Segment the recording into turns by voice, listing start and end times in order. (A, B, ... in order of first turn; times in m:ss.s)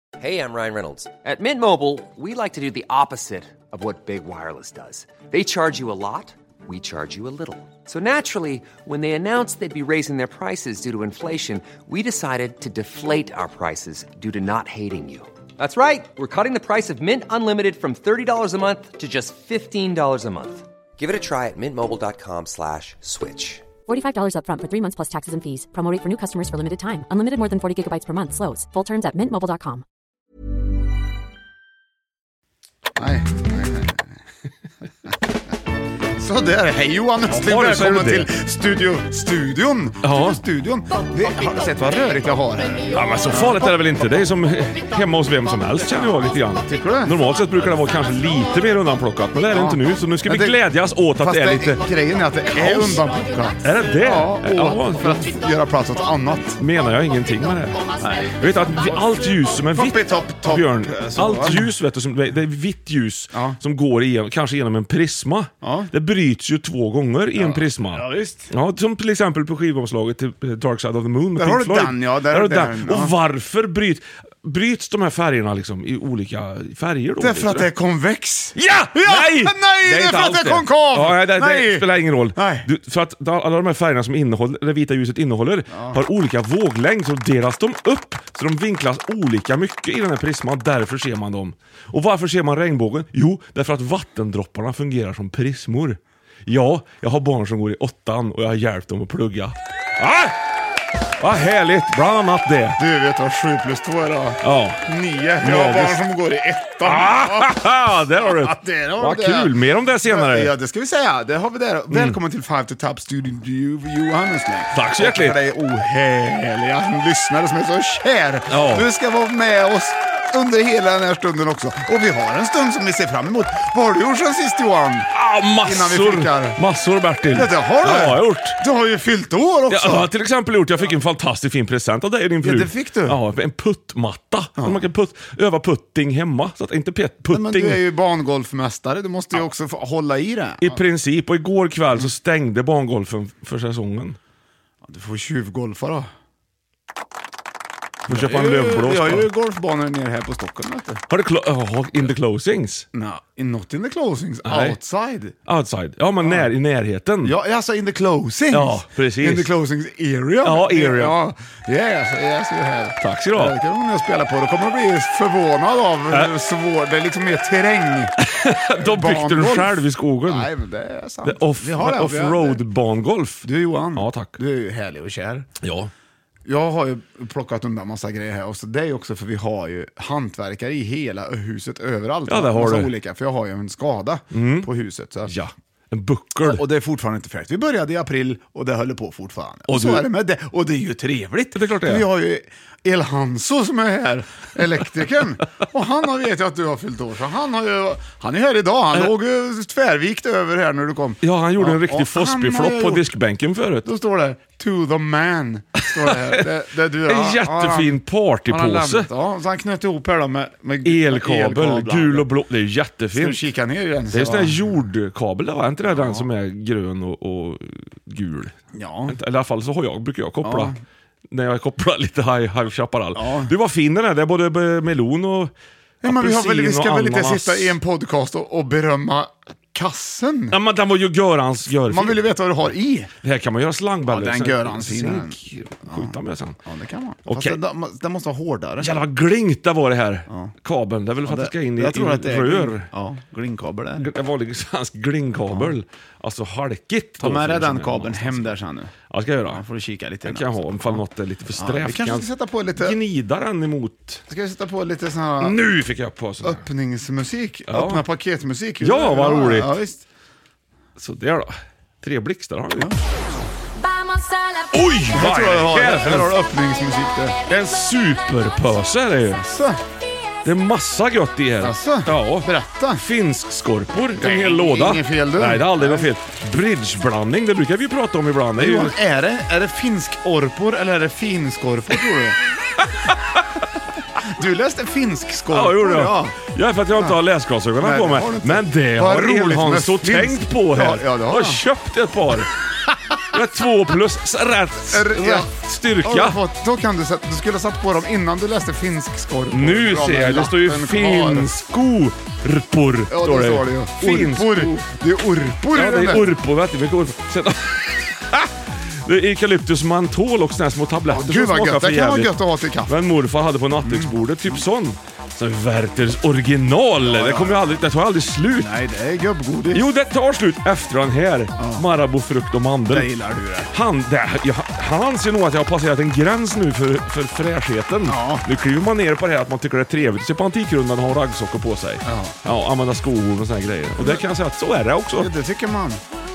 0:00.2-0:23.7 A
0:23.9-0:29.8 B
0:33.0-0:34.1 C
0:36.2-0:43.9 C
0:37.3-0:38.3 D
0:40.0-0:40.4 D
0:42.9-0:51.8 D
0:46.6-0:47.2 C
0:49.5-0:50.6 C
0:51.2-0:56.6 C
0:52.6-0:53.0 D
0:53.6-0:55.3 D
0:56.6-1:17.7 D
0:58.0-0:58.4 C
0:59.6-1:01.7 C
1:03.3-1:03.6 C
1:05.6-1:05.9 C
1:07.4-1:08.5 C
1:11.4-1:13.1 C
1:17.2-1:22.7 C
1:18.6-1:40.4 D
1:25.7-1:26.0 C
1:41.2-1:42.8 D
1:42.8-1:47.6 C
1:44.4-1:44.8 D
1:45.4-1:46.0 D
1:46.8-1:50.5 D
1:48.2-1:49.5 C
1:50.0-2:05.1 C
1:54.7-1:55.4 D
1:58.5-1:58.9 D
2:05.1-2:08.6 D
2:05.6-2:06.6 C
2:07.3-2:10.1 C
2:09.7-2:17.8 D
2:12.4-2:13.2 C
2:14.6-2:14.8 C
2:17.3-2:20.8 C
2:20.6-2:24.2 D
2:24.8-2:26.1 C
2:28.1-2:31.0 C
2:28.1-2:29.3 D
2:31.1-2:32.9 D
2:32.9-2:35.4 C
2:34.4-2:34.8 D
2:35.5-2:37.4 D
2:36.2-2:36.5 C
2:37.2-2:48.1 C
2:38.5-2:39.5 D
2:40.4-2:41.2 D
2:43.0-2:43.6 D
2:48.2-2:50.5 D
2:48.8-2:52.6 C
2:51.2-2:54.4 D
2:53.4-2:55.5 C
2:55.6-2:55.9 D
2:56.5-3:05.3 C
3:02.3-3:02.9 D
3:04.3-3:04.7 D
3:05.3-3:06.6 D
3:06.4-3:23.1 C
3:09.7-3:10.1 D
3:11.6-3:12.1 D
3:21.2-3:23.9 D
3:23.8-3:32.3 C
3:25.8-3:26.4 D
3:27.0-3:29.1 D
3:30.8-3:33.4 D
3:33.1-3:34.8 C
3:34.1-3:38.6 D
3:35.9-3:36.3 C
3:38.7-3:39.2 C
3:39.1-3:40.8 D
3:40.4-3:40.8 C
3:41.3-3:45.5 D
3:43.1-3:43.5 C
3:46.0-3:50.6 C
3:46.0-3:47.8 D
3:50.5-3:52.2 D
3:51.9-3:53.1 C
3:53.2-3:56.6 D
3:54.1-3:55.4 C
3:55.9-3:58.9 C
3:57.3-3:57.6 D
3:58.8-4:02.9 D
4:01.2-4:04.1 C
4:04.0-4:08.5 D
4:05.5-4:05.8 C
4:07.2-4:08.9 C
4:09.1-4:09.6 D
4:09.5-4:11.0 C
4:10.2-4:14.2 D
4:11.6-4:13.0 C
4:14.3-4:15.6 C
4:15.4-4:16.6 D
4:16.4-4:20.0 C
4:17.7-4:18.0 D
4:18.8-4:19.8 D
4:21.0-4:23.0 D
4:24.7-4:26.4 D
4:25.1-4:27.4 C
4:27.5-4:29.4 D
4:29.4-4:29.8 C
4:30.4-4:39.0 D
4:31.6-4:33.0 C
4:34.2-4:36.1 C
4:38.6-4:42.4 C
4:43.1-4:43.4 D
4:44.2-4:46.4 C
4:45.5-4:52.5 D
4:47.8-4:51.6 C
4:52.9-4:53.2 C
4:53.3-4:56.4 D
4:54.9-4:55.5 C
4:56.0-5:01.5 C
4:59.5-5:04.8 D
5:03.1-5:06.3 C
5:05.7-5:08.5 D
5:09.0-5:12.3 D
5:11.1-5:13.0 C
5:12.9-5:18.8 D
5:13.8-5:14.6 C
5:17.0-5:17.8 C
5:18.6-5:19.9 C
5:19.7-5:23.1 D
5:21.6-5:21.8 C
5:22.9-5:23.7 C
5:23.7-5:35.3 D
5:28.0-5:28.4 C
5:32.1-5:32.4 C
5:35.2-5:36.0 C